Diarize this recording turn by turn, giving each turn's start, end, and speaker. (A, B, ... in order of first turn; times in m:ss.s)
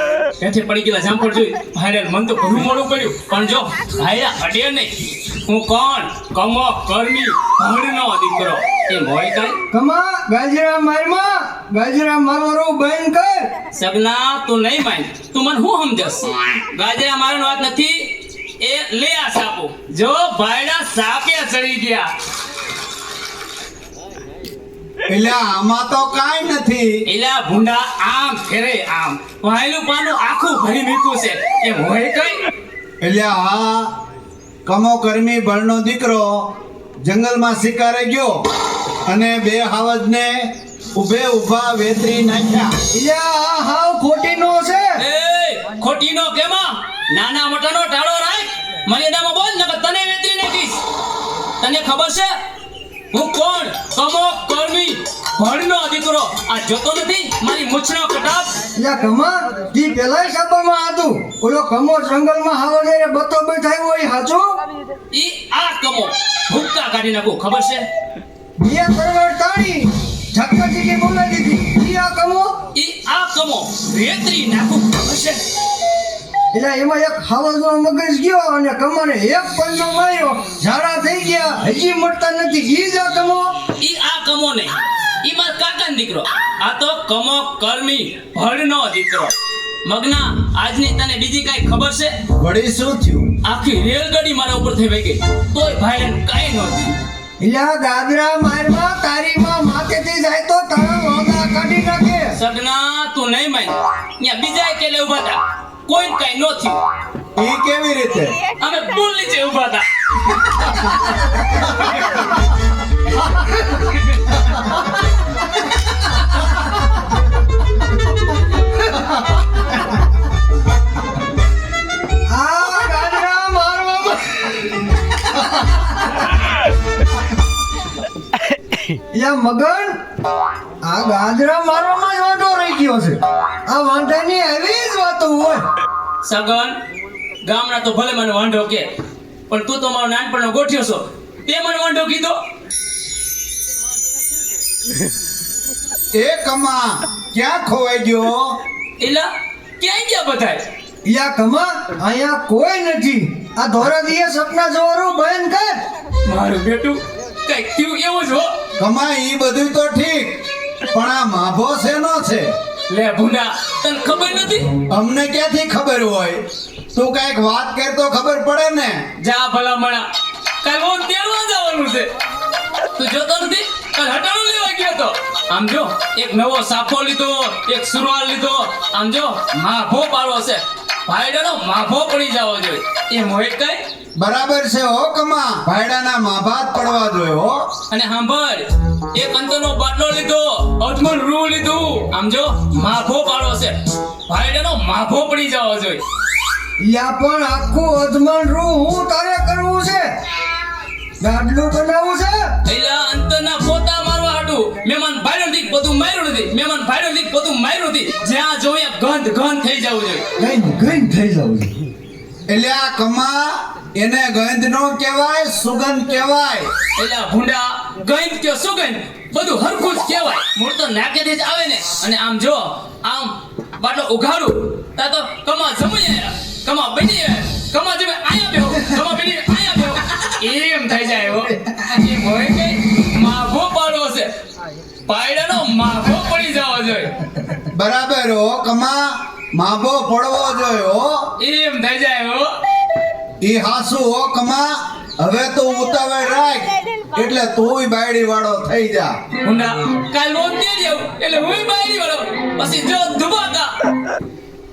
0:00.4-0:04.9 A
0:05.5-0:09.6 A
0:09.7-0:13.3 B
0:13.7-0:22.1 A
0:25.1-0:27.0 C
0:27.1-0:32.4 A
0:33.0-0:33.9 C
0:34.7-0:36.5 C
0:37.0-0:38.4 C
0:39.1-0:42.7 C
0:42.9-0:44.9 B
0:45.0-0:50.8 A
0:51.6-0:52.3 A
0:53.1-0:58.5 A
0:58.8-1:04.5 B
1:05.1-1:07.8 A
1:08.6-1:12.5 B
1:12.7-1:15.4 A
1:16.5-1:23.5 B
1:23.8-1:32.1 A
1:32.4-1:33.3 C
1:33.4-1:37.0 A
1:37.4-1:42.3 B
1:42.4-1:46.8 A
1:47.4-1:48.4 C
1:48.6-1:52.2 A
2:02.3-2:04.3 B
2:09.1-2:09.9 B
2:10.8-2:15.6 B
2:16.2-2:16.8 A
2:17.4-2:18.9 A
2:19.5-2:22.4 A
2:26.1-2:28.6 C
2:29.0-2:29.3 A
2:29.8-2:30.6 A
2:31.0-2:35.7 B
2:36.2-2:38.5 A
2:38.8-2:42.5 C
2:42.9-2:44.7 A
2:44.9-2:46.4 C
2:46.9-2:49.0 C
2:49.2-2:50.1 A
2:50.6-2:52.1 A
2:53.0-3:03.8 A
3:04.2-3:07.7 C
3:07.9-3:13.7 A
3:14.3-3:16.0 A
3:16.8-3:20.0 B
3:21.2-3:22.4 B
3:22.6-3:30.2 A
3:30.4-3:31.7 B
3:32.5-3:36.7 C
3:37.0-3:54.3 A
3:55.1-3:57.1 A
3:57.7-4:01.1 C
4:01.4-4:02.5 A
4:03.4-4:09.1 C
4:09.4-4:13.7 A